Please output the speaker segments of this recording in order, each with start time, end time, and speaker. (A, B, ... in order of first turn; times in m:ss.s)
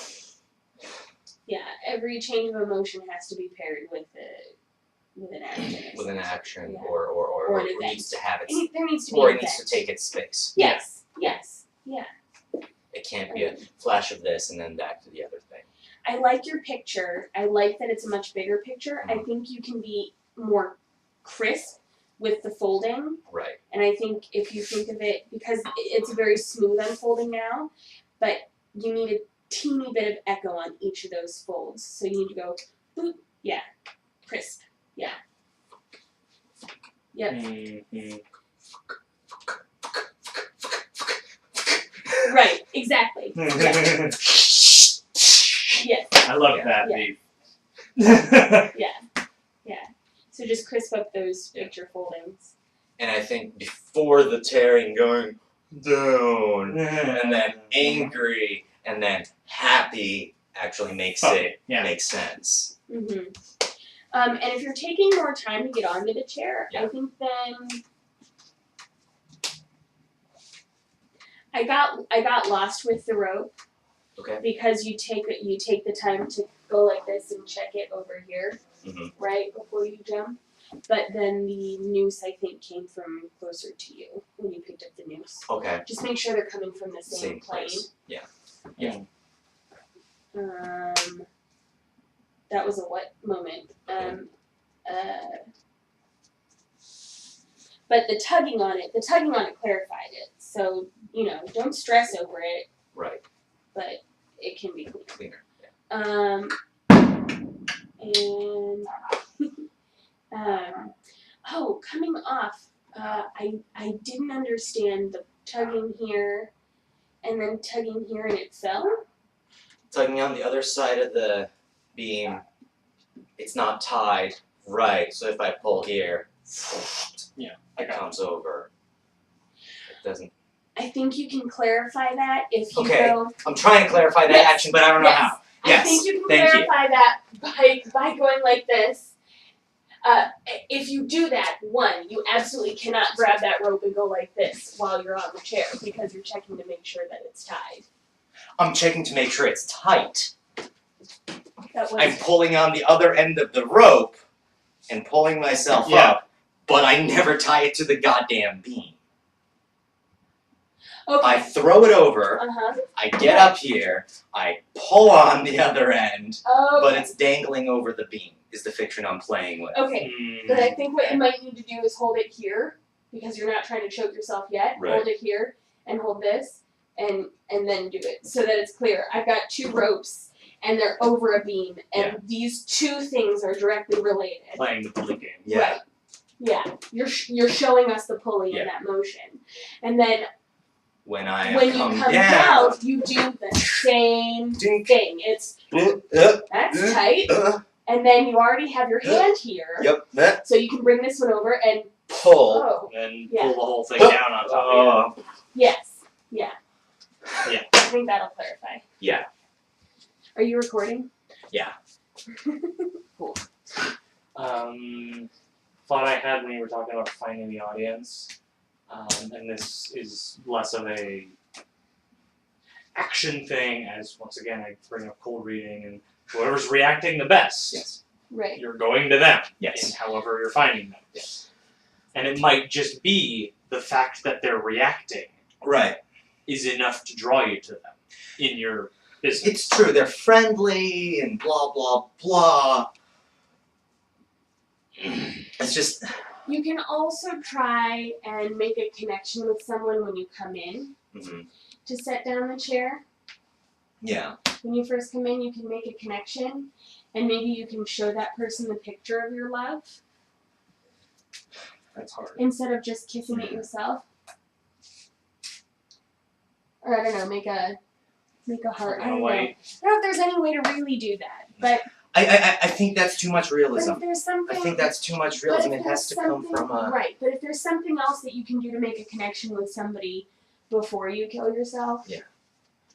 0:01.4-0:04.5 A
0:05.2-0:09.8 A
0:05.9-0:10.5 B
0:10.5-0:12.1 A
0:12.9-0:15.7 B
0:13.3-0:13.6 A
0:16.0-0:33.6 A
0:23.3-0:23.6 B
0:34.2-0:35.2 A
0:37.1-0:37.5 A
0:37.3-0:38.2 C
0:42.2-0:44.1 A
0:43.4-0:44.3 C
0:45.8-0:47.1 A
0:46.2-0:47.2 C
0:46.5-0:46.8 B
0:48.0-0:48.7 C
0:48.7-0:49.0 A
0:49.6-0:52.5 A
0:53.0-1:02.7 B
0:56.7-0:58.2 C
1:01.2-1:01.9 C
1:02.9-1:03.3 A
1:04.1-1:07.8 A
1:11.5-1:13.5 A
1:14.2-1:14.4 B
1:14.4-1:18.6 A
1:18.8-1:19.1 B
1:19.2-1:27.9 A
1:25.5-1:25.8 B
1:27.1-1:29.0 B
1:28.8-1:29.0 C
1:30.3-1:31.2 A
1:32.5-1:34.3 A
1:33.9-1:34.2 B
1:34.8-1:35.4 A
1:37.9-1:42.7 A
1:42.9-1:43.2 B
1:43.7-1:45.2 A
1:45.1-1:45.5 B
1:45.9-1:46.6 A
1:48.0-1:49.6 A
1:50.3-1:56.5 A
1:57.2-1:59.0 A
1:59.9-2:02.4 B
2:03.4-2:06.3 B
2:06.8-2:07.2 B
2:07.3-2:08.1 C
2:07.8-2:08.7 B
2:09.9-2:10.3 B
2:10.8-2:13.3 A
2:12.7-2:16.7 B
2:14.2-2:19.1 A
2:20.0-2:27.8 A
2:28.6-2:30.3 B
2:31.7-2:32.2 A
2:32.0-2:34.2 B
2:34.9-2:39.0 B
2:35.8-2:36.2 C
2:41.1-2:41.6 A
2:41.2-2:49.9 B
2:42.3-2:43.5 A
2:46.4-2:47.1 A
2:49.7-3:04.6 A
2:50.0-2:50.8 C
2:54.8-2:55.1 B
3:01.9-3:02.2 B
3:04.6-3:05.4 C
3:05.4-3:05.8 B
3:05.5-3:05.8 A
3:06.4-3:10.3 A
3:11.0-3:12.8 B
3:11.4-3:15.6 A
3:14.5-3:14.9 B
3:15.7-3:17.6 B
3:16.5-3:23.6 A
3:19.8-3:20.4 B
3:22.1-3:22.7 B
3:22.9-3:25.1 C
3:23.9-3:25.1 B
3:25.5-3:26.6 A
3:27.4-3:27.7 C
3:27.7-3:28.8 A
3:29.0-3:29.3 B
3:30.4-3:31.1 A
3:31.5-3:31.7 B
3:32.4-3:33.4 A
3:34.3-3:35.3 C
3:35.8-3:38.3 C
3:38.9-3:41.3 C
3:42.9-3:47.9 C
3:47.7-3:48.0 B
3:48.3-3:48.6 A
3:48.6-3:51.3 C
3:49.6-3:49.9 B
3:52.1-3:55.3 C
3:55.6-3:56.0 B
3:56.4-3:59.7 C
3:59.4-4:02.9 B
4:05.4-4:06.1 B
4:06.4-4:10.9 A
4:11.1-4:11.5 B
4:11.8-4:13.0 A
4:14.0-4:14.4 B
4:14.6-4:20.0 A
4:21.9-4:22.4 C
4:22.4-4:24.0 A
4:23.3-4:23.6 B
4:26.8-4:27.8 A
4:28.4-4:31.9 A
4:28.8-4:29.6 C
4:31.6-4:37.0 B
4:33.7-4:42.1 A